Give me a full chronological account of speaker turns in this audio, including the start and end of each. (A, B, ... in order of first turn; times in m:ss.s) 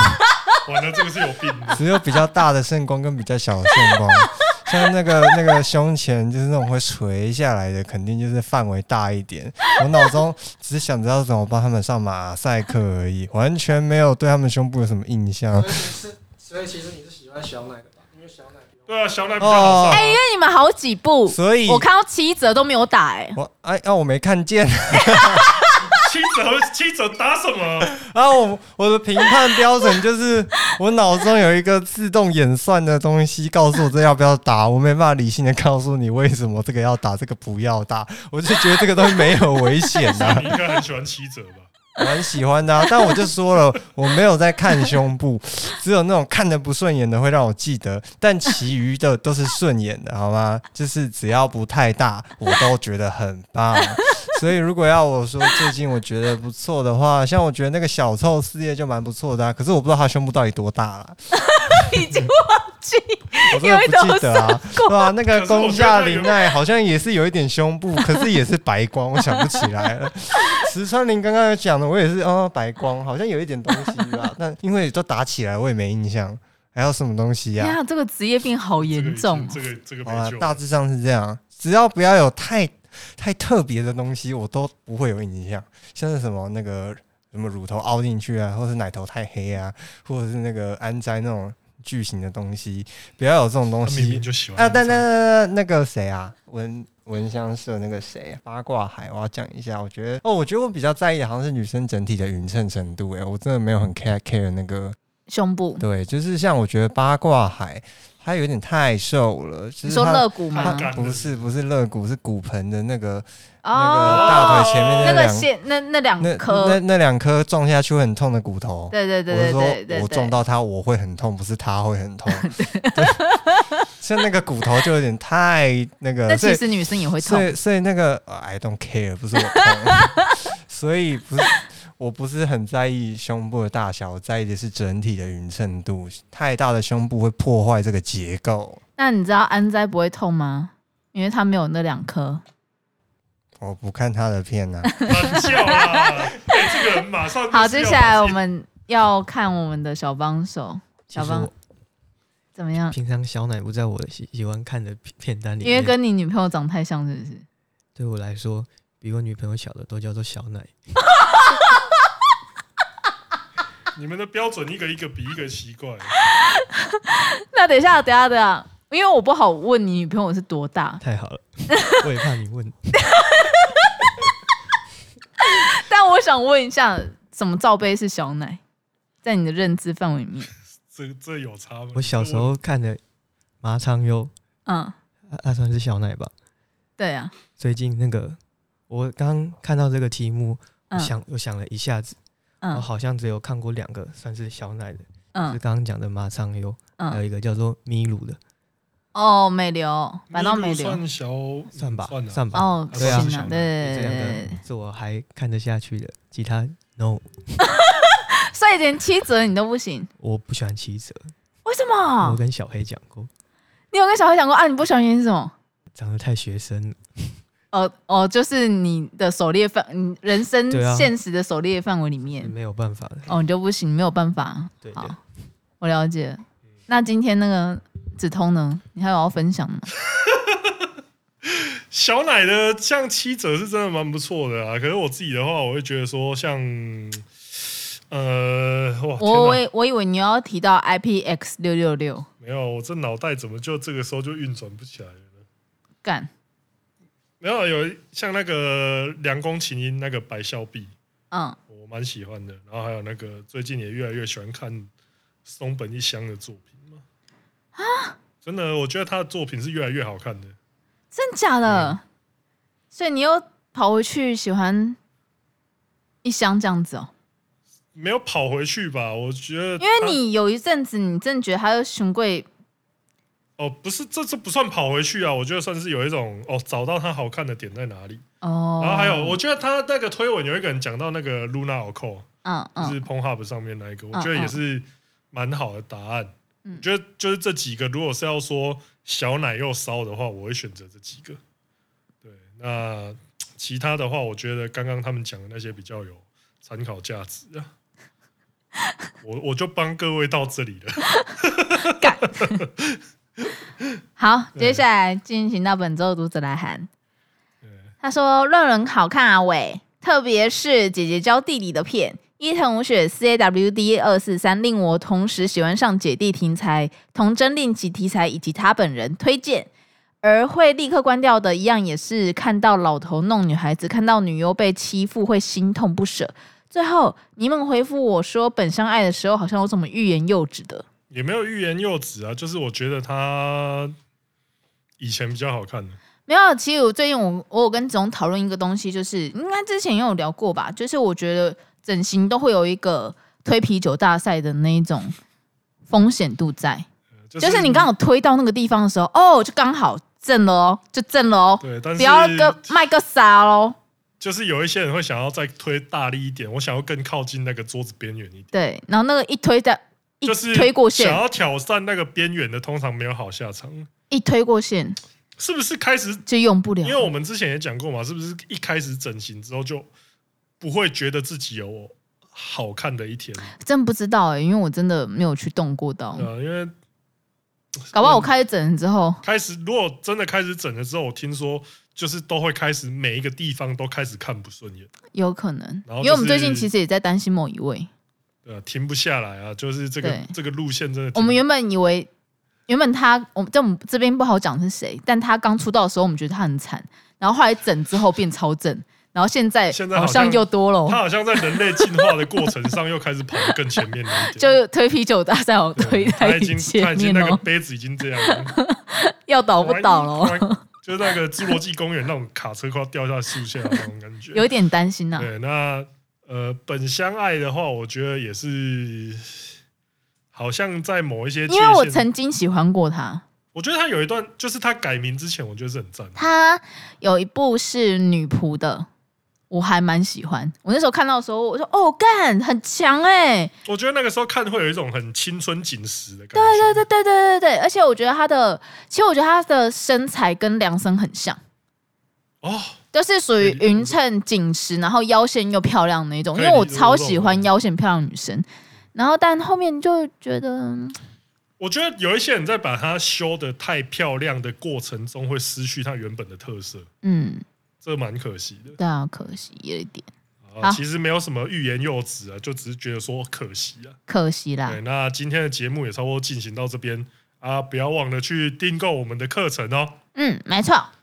0:00.6-0:01.9 A
0:01.7-0:15.9 B
0:15.6-0:18.7 C
0:18.9-0:20.1 A
0:19.4-0:20.2 B
0:19.9-0:23.4 D
0:21.3-0:21.9 B
0:23.4-0:25.6 B
0:25.2-0:25.7 D
0:25.9-0:28.0 A
0:27.9-0:40.5 B
0:40.1-0:41.7 A
0:42.0-1:01.2 B
0:53.9-0:54.4 D
1:01.4-1:05.2 D
1:03.5-1:17.8 B
1:05.3-1:06.4 A
1:13.9-1:14.3 D
1:17.6-1:19.6 D
1:18.8-1:20.6 A
1:20.1-1:45.0 B
1:33.8-1:35.0 A
1:45.3-1:45.8 D
1:45.8-1:55.5 B
1:49.8-1:50.9 D
1:50.5-1:51.4 A
1:53.6-1:56.8 D
1:54.1-1:55.2 A
1:56.2-2:03.2 B
1:58.9-2:00.4 D
2:02.3-2:03.7 D
2:04.0-2:06.6 B
2:06.3-2:07.5 D
2:07.2-2:10.1 B
2:09.7-2:10.4 D
2:10.7-2:18.8 B
2:19.0-2:22.4 D
2:23.6-2:25.0 B
2:24.9-2:26.0 D
2:25.0-2:28.4 A
2:27.5-2:31.5 D
2:31.1-2:31.6 E
2:32.6-2:33.0 D
2:32.9-2:36.0 E
2:35.6-2:37.4 D
2:38.0-2:40.8 E
2:44.0-2:46.2 A
2:46.2-2:51.0 D
2:51.0-2:52.8 E
2:53.0-2:54.0 D
2:55.4-2:58.6 D
2:59.2-3:00.5 D
3:00.9-3:02.6 A
3:02.0-3:03.0 E
3:03.6-3:04.3 E
3:04.7-3:04.9 D
3:05.3-3:06.3 E
3:07.0-3:07.3 D
3:07.6-3:12.2 E
3:10.9-3:11.2 D
3:12.7-3:18.4 E
3:19.1-3:21.0 D
3:20.3-3:23.7 A
3:21.8-3:27.7 E
3:22.5-3:24.6 D
3:27.6-3:30.1 D
3:30.2-3:31.3 E
3:31.6-3:32.4 D
3:32.2-3:33.3 E
3:33.9-3:35.5 D
3:35.9-3:37.4 E
3:37.7-3:42.5 D
3:40.7-3:41.1 E
3:42.4-3:43.4 E
3:43.3-3:45.2 D
3:44.8-3:45.2 E
3:45.8-3:49.9 D
3:50.0-3:50.9 A
3:51.4-3:57.3 A
3:58.1-3:59.6 A
3:59.2-4:02.3 D
4:02.4-4:05.4 A
4:06.0-4:06.3 D
4:07.4-4:10.9 A
4:11.3-4:11.6 D
4:11.7-4:14.9 A
4:15.4-4:17.0 A
4:17.8-4:18.2 D
4:18.4-4:20.6 A
4:21.1-4:22.0 D
4:21.7-4:22.0 A
4:22.9-4:25.0 D
4:26.2-4:27.1 D
4:27.9-4:30.2 A
4:29.8-4:32.5 D
4:33.6-4:38.2 A
4:38.4-4:39.4 D
4:38.8-4:42.3 A
4:42.4-4:43.0 D
4:42.8-4:51.4 A
4:44.1-4:44.6 D
4:52.2-4:57.7 A
4:59.2-5:03.9 A
5:01.9-5:02.6 D
5:04.2-5:06.9 D
5:04.6-5:04.8 A
5:07.6-5:07.9 A
5:08.0-5:19.7 D
5:20.2-5:30.8 D
5:31.1-5:34.0 A
5:35.0-5:36.0 A
5:36.3-5:45.2 D
5:45.9-5:46.9 D
5:47.3-5:47.9 A
5:47.4-5:53.8 D
5:51.6-5:52.6 A
5:54.2-5:58.5 A
5:58.5-6:01.2 D
6:00.2-6:03.9 A
6:04.1-6:05.0 D
6:05.4-6:06.2 A
6:06.3-6:07.1 D
6:06.8-6:09.9 A
6:10.6-6:13.6 A
6:13.6-6:16.3 D
6:16.2-6:16.7 A
6:17.9-6:18.3 A
6:17.9-6:19.2 D
6:19.2-6:24.9 A
6:25.1-6:27.9 D
6:25.9-6:26.7 A
6:28.4-6:31.4 A
6:30.0-6:30.3 D
6:31.2-6:32.1 D
6:32.7-6:42.1 D
6:39.7-6:44.6 A
6:44.3-6:47.4 D
6:45.8-6:48.6 A
6:48.3-6:50.6 D
6:49.6-6:54.5 A
6:54.3-6:55.3 D
6:55.2-6:59.5 A
7:00.3-7:02.1 A
7:01.5-7:03.2 D
7:03.6-7:06.3 A
7:06.2-7:08.9 D
7:09.5-7:13.5 D
7:13.7-7:16.8 A
7:16.4-7:21.4 D
7:22.4-7:22.8 A
7:22.9-7:31.0 D
7:23.4-7:24.0 A
7:26.3-7:27.5 A
7:31.6-7:36.9 A
7:37.0-7:37.4 D
7:37.8-7:38.8 A
7:38.8-7:40.1 D
7:40.5-7:44.0 A
7:44.1-7:44.8 D
7:44.7-7:50.0 A
7:50.2-7:50.9 D